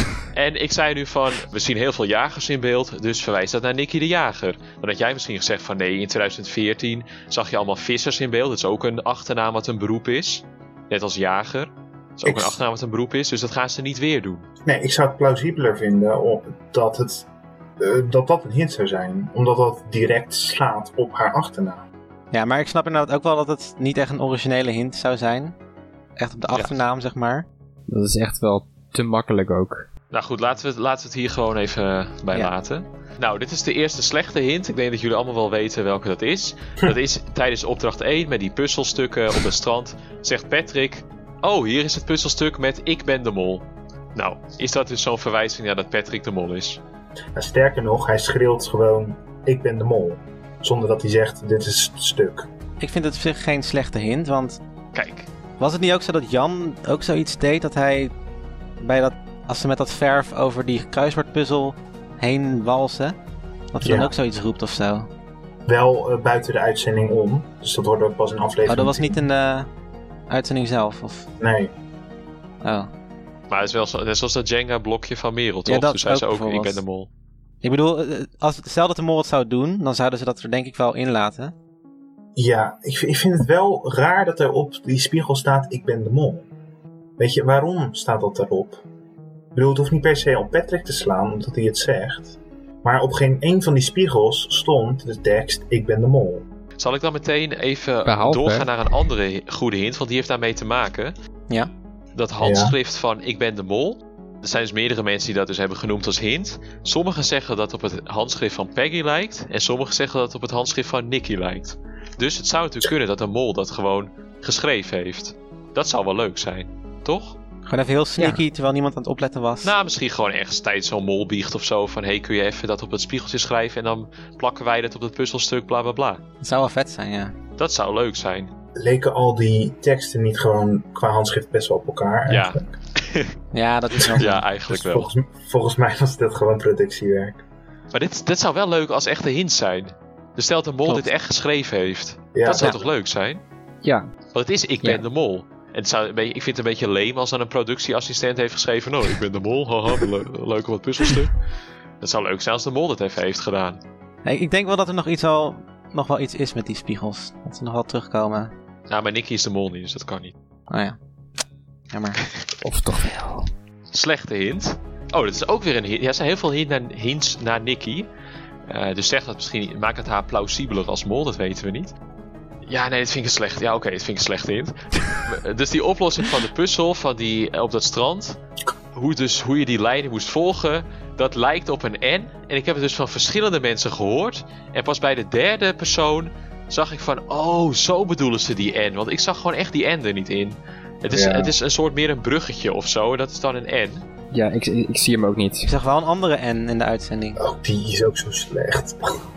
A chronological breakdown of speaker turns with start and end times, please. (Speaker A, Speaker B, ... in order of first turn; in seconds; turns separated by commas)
Speaker A: 0.3-14.5, Speaker B: 12.2-12.6, Speaker B: 14.7-17.3, Speaker B: 17.8-21.9, Speaker C: 22.3-25.6, Speaker C: 26.2-27.5, Speaker A: 26.5-26.8, Speaker D: 27.9-29.9, Speaker A: 30.1-46.8, Speaker B: 47.4-52.5, Speaker C: 52.8-54.6, Speaker A: 54.9-55.3, Speaker C: 55.6-58.1, Speaker C: 58.8-63.2, Speaker C: 63.7-65.1, Speaker B: 63.8-64.1, Speaker B: 65.7-69.2, Speaker C: 68.7-69.7, Speaker C: 70.3-71.3, Speaker B: 71.4-71.7, Speaker C: 72.6-72.9, Speaker A: 73.5-77.1, Speaker C: 75.7-76.8, Speaker C: 77.6-81.5, Speaker B: 82.4-86.5, Speaker B: 87.2-88.8, Speaker B: 89.5-96.5, Speaker A: 96.8-101.1, Speaker D: 98.1-98.7, Speaker A: 102.2-117.4, Speaker B: 102.4-102.8, Speaker C: 117.7-119.7, Speaker A: 119.6-126.2, Speaker C: 126.4-127.3, Speaker A: 127.6-128.5, Speaker B: 128.8-132.7, Speaker A: 132.3-133.3, Speaker C: 133.5-134.4, Speaker A: 134.0-135.1, Speaker B: 134.7-137.4, Speaker A: 137.9-143.4, Speaker B: 142.3-142.8, Speaker D: 143.8-144.1, Speaker A: 144.3-151.4, Speaker A: 152.0-153.8, Speaker C: 154.2-158.5, Speaker A: 158.9-160.3, Speaker C: 160.7-161.0, Speaker C: 161.9-162.2, Speaker D: 162.6-163.5, Speaker A: 163.9-168.1, Speaker A: 168.7-171.9, Speaker A: 172.7-178.4, Speaker A: 178.9-194.0, Speaker B: 191.1-191.5, Speaker D: 194.3-195.7, Speaker C: 195.7-197.4, Speaker B: 197.4-199.2